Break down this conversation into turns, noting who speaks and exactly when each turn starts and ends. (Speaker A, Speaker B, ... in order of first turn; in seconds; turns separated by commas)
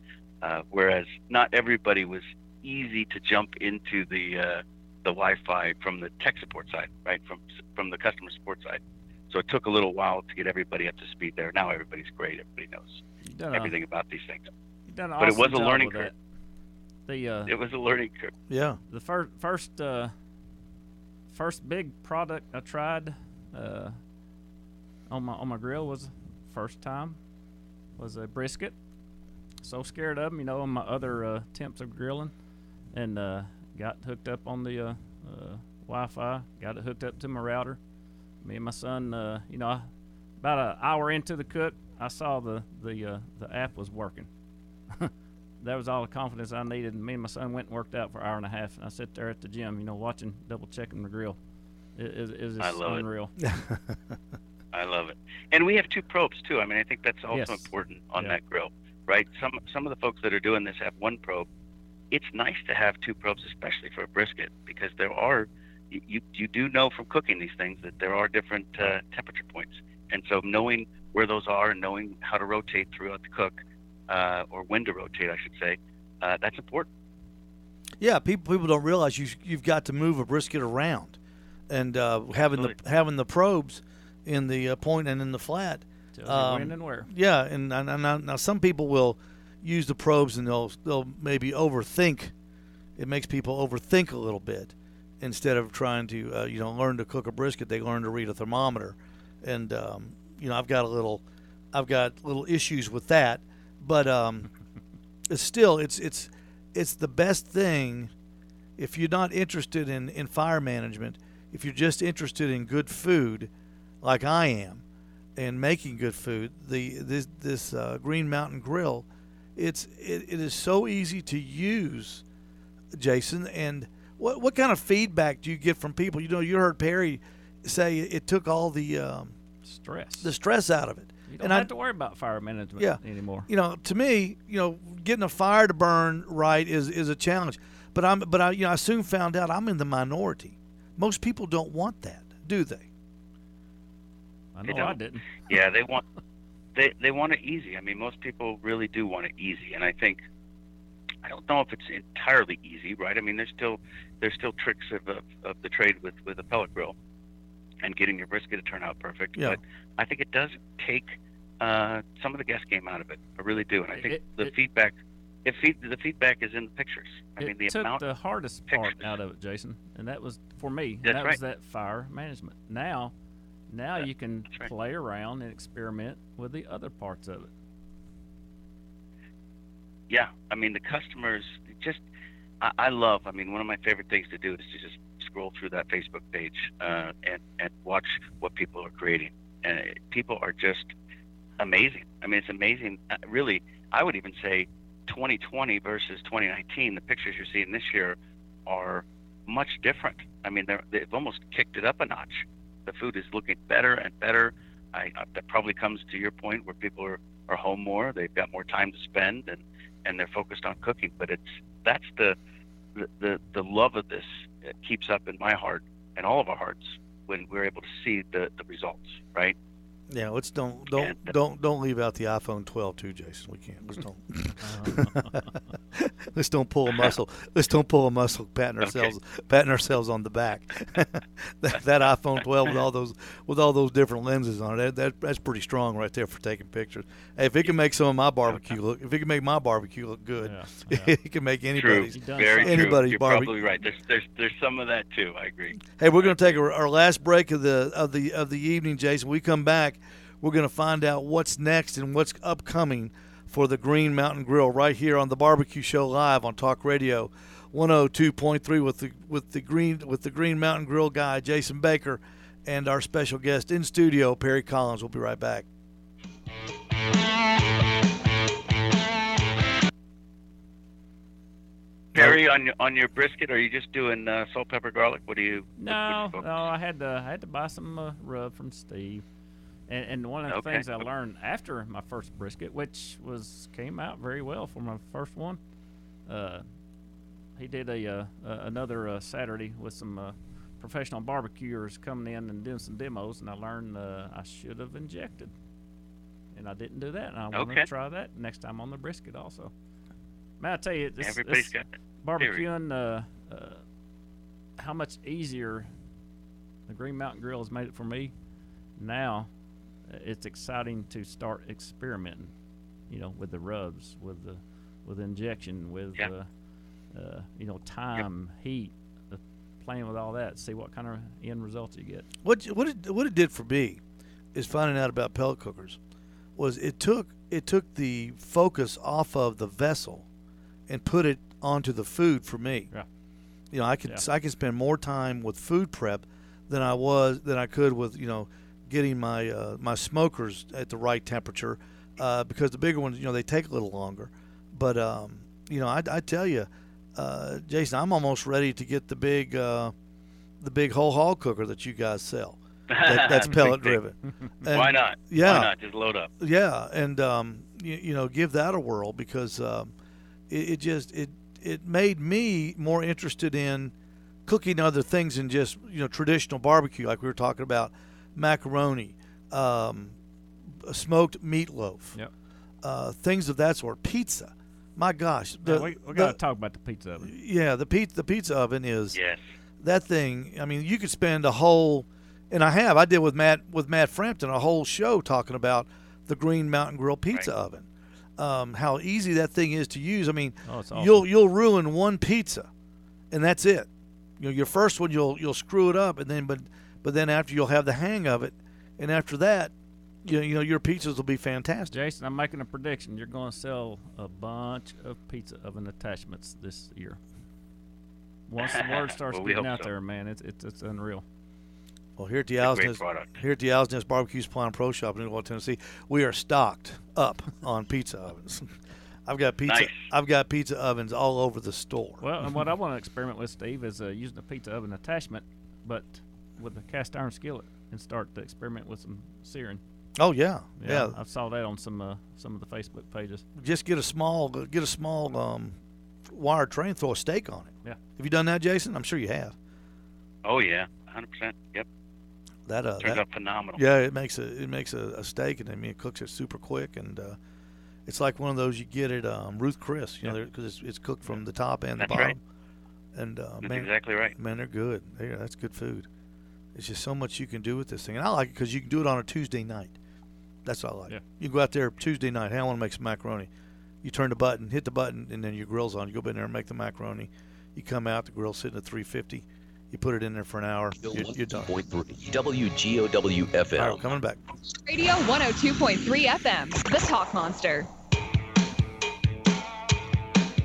Speaker A: 0.4-14.5, Speaker B: 13.2-13.8, Speaker B: 14.9-16.2, Speaker A: 15.2-16.1, Speaker B: 17.1-17.6, Speaker A: 17.5-18.3, Speaker C: 18.5-18.8, Speaker B: 18.9-20.1, Speaker B: 21.3-24.0, Speaker B: 25.1-27.2, Speaker B: 28.0-28.8, Speaker B: 29.6-32.3, Speaker B: 32.9-37.8, Speaker B: 38.4-39.9, Speaker B: 40.4-44.3, Speaker B: 44.9-51.4, Speaker B: 52.0-53.4, Speaker A: 52.6-53.1, Speaker C: 53.4-54.1, Speaker A: 54.7-61.5, Speaker B: 57.3-58.4, Speaker A: 62.1-76.9, Speaker C: 78.0-81.2, Speaker C: 81.7-92.3, Speaker A: 82.4-82.8, Speaker B: 86.2-87.1, Speaker C: 93.0-104.5, Speaker C: 105.3-108.1, Speaker C: 108.8-113.5, Speaker C: 114.0-114.8, Speaker C: 115.4-122.2, Speaker C: 122.9-129.4, Speaker B: 129.7-130.3, Speaker C: 130.2-131.7, Speaker B: 131.3-133.5, Speaker C: 132.8-142.9, Speaker B: 144.6-145.4, Speaker A: 144.7-146.0, Speaker A: 146.8-150.2, Speaker A: 151.2-157.0, Speaker A: 157.8-168.0, Speaker B: 163.9-164.5, Speaker B: 167.4-173.1, Speaker A: 168.7-169.1, Speaker A: 171.0-171.4, Speaker B: 173.7-177.5, Speaker A: 174.0-174.7, Speaker A: 180.1-182.0, Speaker A: 182.6-190.9, Speaker A: 191.6-212.4, Speaker A: 212.9-219.6, Speaker C: 220.1-225.4, Speaker A: 221.0-221.3, Speaker B: 224.6-225.6, Speaker C: 225.9-243.5, Speaker A: 228.8-229.1, Speaker B: 240.4-241.1, Speaker A: 241.8-246.3, Speaker B: 242.1-243.0, Speaker C: 245.9-265.7, Speaker A: 272.1-276.6, Speaker C: 272.1-272.4, Speaker B: 275.8-279.2, Speaker B: 279.9-285.6, Speaker A: 280.5-281.1, Speaker B: 286.3-286.7, Speaker B: 287.6-295.5, Speaker B: 296.5-299.7, Speaker A: 297.5-297.9, Speaker B: 300.6-303.8, Speaker A: 301.2-301.9, Speaker A: 302.4-302.6, Speaker B: 304.8-305.9, Speaker B: 306.9-308.3, Speaker B: 309.0-309.5, Speaker B: 310.1-312.5, Speaker B: 313.1-316.6, Speaker B: 317.1-322.3, Speaker C: 322.4-324.0, Speaker C: 324.5-326.0, Speaker C: 326.6-330.3, Speaker C: 330.9-332.9, Speaker C: 333.7-349.9, Speaker C: 350.6-355.7, Speaker A: 352.9-354.0, Speaker A: 354.7-356.3, Speaker C: 356.4-359.9, Speaker C: 360.5-363.9, Speaker C: 364.5-370.2, Speaker C: 370.8-372.2, Speaker C: 372.8-376.4, Speaker B: 375.6-377.3, Speaker C: 377.2-379.2, Speaker A: 379.1-379.4, Speaker C: 379.8-387.9, Speaker C: 388.4-392.7, Speaker B: 390.7-391.3, Speaker C: 393.3-393.9, Speaker C: 394.4-399.7, Speaker C: 400.2-401.9, Speaker B: 401.9-407.2, Speaker B: 408.5-411.2, Speaker A: 408.6-409.9, Speaker C: 412.2-418.7, Speaker A: 412.6-413.3, Speaker C: 419.3-422.2, Speaker A: 419.7-420.1, Speaker B: 422.2-429.8, Speaker C: 430.2-431.2, Speaker B: 430.8-433.4, Speaker C: 433.6-435.8, Speaker C: 436.3-439.6, Speaker A: 440.4-441.9, Speaker C: 442.7-443.2, Speaker A: 443.0-443.8, Speaker C: 443.8-447.4, Speaker C: 448.1-452.4, Speaker A: 452.0-452.4, Speaker C: 453.1-456.1, Speaker A: 453.6-454.4, Speaker C: 456.7-459.9, Speaker C: 460.6-463.5, Speaker C: 464.0-471.7, Speaker D: 471.0-474.0, Speaker C: 473.8-474.4, Speaker E: 474.8-477.9